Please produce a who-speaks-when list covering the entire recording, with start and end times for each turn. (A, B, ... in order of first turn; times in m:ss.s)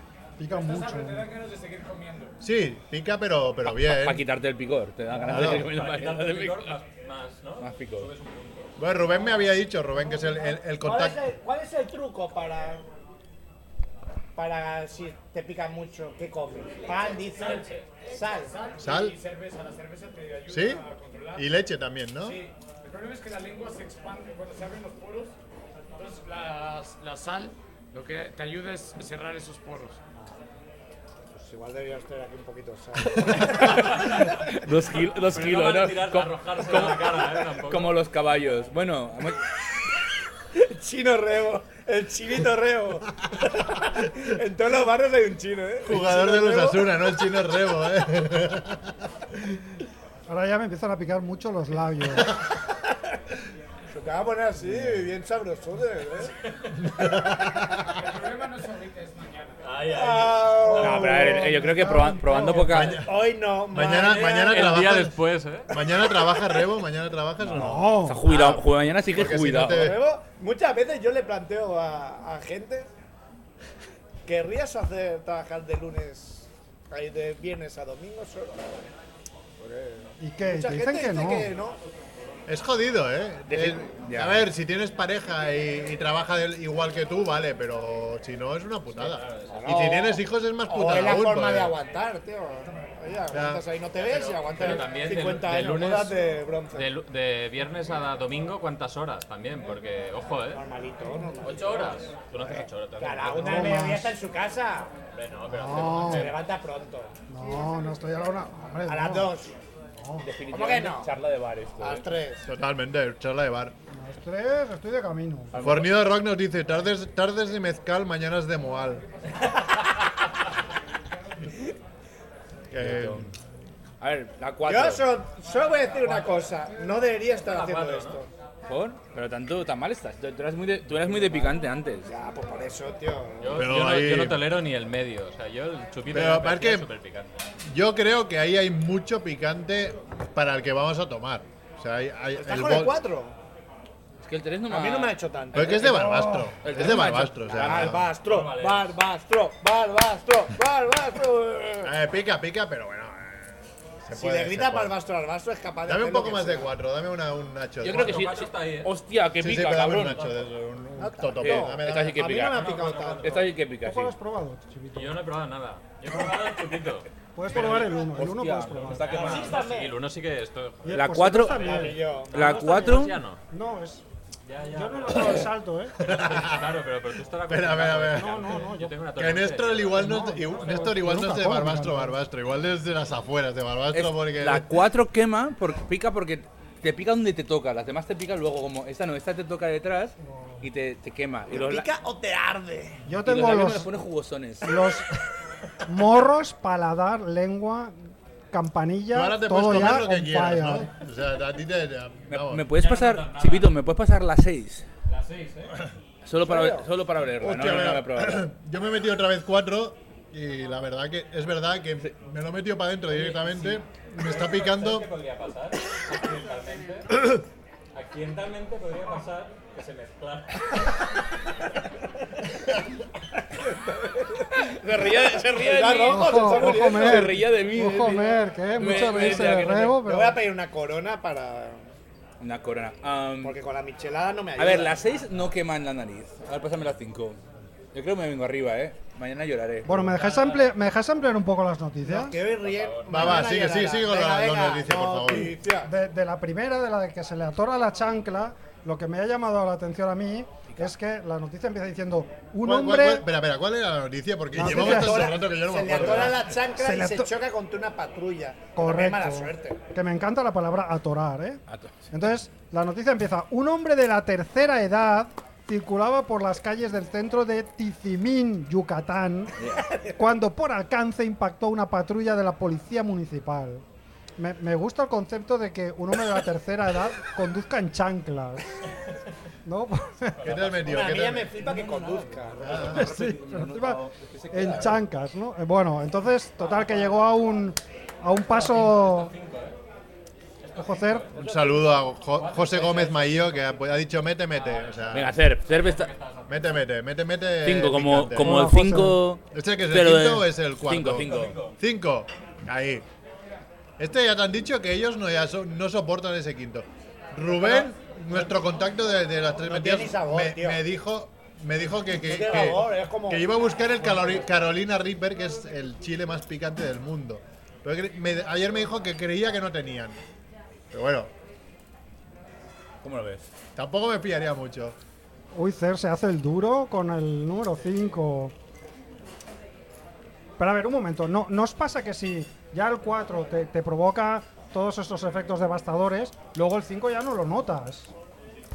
0:00.4-0:01.3 A
0:00.5-0:02.4 B
0:02.4-0:04.2 C
0:03.6-0:06.8 D
0:05.2-0:08.8 E
0:05.3-0:05.7 C
0:07.6-0:08.1 D
0:08.8-0:11.2 C
0:10.8-0:12.8 F
0:14.4-0:18.5 F
0:16.9-0:21.5 B
0:17.4-0:17.9 E
0:18.8-0:19.2 C
0:20.5-0:20.8 C
0:21.3-0:22.4 C
0:22.2-0:25.3 B
0:26.0-0:30.0 B
0:31.3-0:34.3 F
0:33.0-0:39.4 D
0:33.8-0:34.4 E
0:35.3-0:38.0 E
0:40.6-0:46.8 F
0:45.8-0:48.9 C
0:50.3-0:52.3 A
0:53.9-0:56.3 F
0:56.5-0:56.9 E
0:56.9-0:57.8 C
0:57.8-0:59.8 B
0:59.6-1:01.3 E
0:59.9-1:01.6 F
1:00.6-1:03.0 D
1:01.7-1:03.0 A
1:02.7-1:03.1 C
1:03.0-1:04.3 F
1:03.7-1:05.2 C
1:04.0-1:05.7 E
1:05.7-1:10.0 C
1:07.5-1:08.2 A
1:08.0-1:10.0 D
1:08.3-1:08.6 F
1:09.7-1:12.9 F
1:14.2-1:18.8 F
1:19.6-1:21.8 F
1:20.2-1:21.5 A
1:22.5-1:31.8 C
1:23.5-1:24.5 D
1:28.9-1:29.8 E
1:29.5-1:30.1 F
1:29.7-1:30.2 D
1:30.6-1:36.9 F
1:33.3-1:33.6 C
1:34.1-1:36.2 E
1:36.7-1:40.6 E
1:40.5-1:44.9 F
1:41.4-1:43.8 E
1:43.4-1:44.2 A
1:45.1-1:46.4 E
1:45.5-1:46.3 A
1:46.0-1:47.1 F
1:47.3-1:49.3 A
1:48.8-1:49.6 F
1:50.0-1:50.3 A
1:50.2-1:52.0 D
1:50.5-1:51.1 F
1:51.8-1:52.5 F
1:52.5-1:53.7 C
1:53.9-1:55.5 A
1:55.5-1:56.0 D
1:55.6-1:59.0 C
2:02.7-2:03.3 C
2:02.8-2:03.3 D
2:04.0-2:05.1 D
2:04.7-2:08.3 F
2:05.9-2:06.4 E
2:07.4-2:08.2 E
2:08.7-2:12.1 D
2:11.1-2:11.5 F
2:12.1-2:13.7 F
2:13.4-2:17.3 E
2:13.6-2:14.5 C
2:16.1-2:16.9 C
2:17.6-2:23.0 C
2:22.4-2:23.3 F
2:24.2-2:25.2 D
2:24.7-2:26.0 F
2:25.5-2:28.1 C
2:25.8-2:26.5 A
2:26.6-2:27.9 D
2:27.0-2:31.9 F
2:28.2-2:28.9 E
2:31.8-2:35.0 C
2:34.1-2:36.7 F
2:35.9-2:38.3 C
2:37.8-2:40.2 D
2:37.9-2:39.0 E
2:39.4-2:42.3 C
2:40.0-2:40.5 E
2:41.0-2:43.5 F
2:41.4-2:42.7 D
2:42.4-2:43.6 E
2:43.2-2:44.1 D
2:43.8-2:45.2 A
2:44.9-2:47.1 E
2:47.4-2:49.2 A
2:47.5-2:49.7 D
2:48.9-2:51.0 E
2:49.1-2:50.0 F
2:50.8-2:52.0 A
2:50.9-2:53.2 D
2:51.5-2:53.1 F
2:52.3-2:53.4 E
2:53.5-2:54.0 A
2:54.4-3:01.0 E
2:54.7-2:56.0 A
2:56.0-2:56.7 C
2:57.5-2:58.6 C
2:58.1-2:59.0 A
2:59.2-3:04.7 C
3:00.0-3:02.2 A
3:03.9-3:11.9 D
3:10.2-3:10.6 A
3:11.5-3:13.0 F
3:13.1-3:13.9 A
3:13.2-3:14.7 D
3:14.6-3:15.1 A
3:15.8-3:20.9 A
3:19.1-3:22.7 C
3:22.3-3:24.8 D
3:22.7-3:23.7 E
3:25.1-3:25.8 E
3:26.2-3:28.5 D
3:26.4-3:26.9 F
3:27.4-3:35.1 C
3:33.5-3:33.8 D
3:34.2-3:37.4 E
3:37.9-3:40.9 E
3:43.6-3:44.7 F
3:44.6-3:50.0 D
3:45.5-3:48.0 F
3:46.1-3:50.4 A
3:50.0-3:51.8 F
3:52.4-3:53.6 D
3:53.4-3:55.0 F
3:54.6-3:57.4 D
3:57.9-4:00.0 D
3:59.8-4:02.4 A
4:00.1-4:00.7 E
4:02.0-4:05.9 F
4:02.6-4:03.5 E
4:03.1-4:05.6 C
4:05.8-4:13.3 A
4:12.6-4:16.5 C
4:14.5-4:15.4 A
4:14.6-4:19.8 F
4:16.7-4:17.3 A
4:18.8-4:29.6 A
4:21.7-4:22.0 D
4:29.6-4:29.8 D
4:29.9-4:30.1 F
4:30.2-4:33.8 A
4:34.4-4:38.8 A
4:39.7-4:40.5 A
4:40.4-4:41.0 E
4:40.4-4:41.6 C
4:40.8-4:43.0 F
4:42.6-4:43.1 C
4:42.7-4:45.0 D
4:42.9-4:49.3 A
4:48.5-4:49.8 E
4:50.6-4:51.5 E
4:50.8-4:51.3 A
4:51.4-4:55.4 C
4:52.2-4:53.7 E
4:54.5-4:55.1 E
4:55.1-4:56.1 D
4:55.6-4:56.7 E
4:56.5-4:58.6 C
4:57.6-5:01.6 D
4:58.4-4:59.2 A
4:59.5-5:03.1 C
5:01.1-5:01.8 E
5:04.0-5:20.2 C
5:07.4-5:08.5 F
5:09.6-5:10.8 F
5:12.1-5:14.5 F
5:20.9-5:21.3 C
5:23.0-5:23.5 D
5:23.8-5:25.0 C
5:25.5-5:28.5 A
5:30.6-5:38.1 A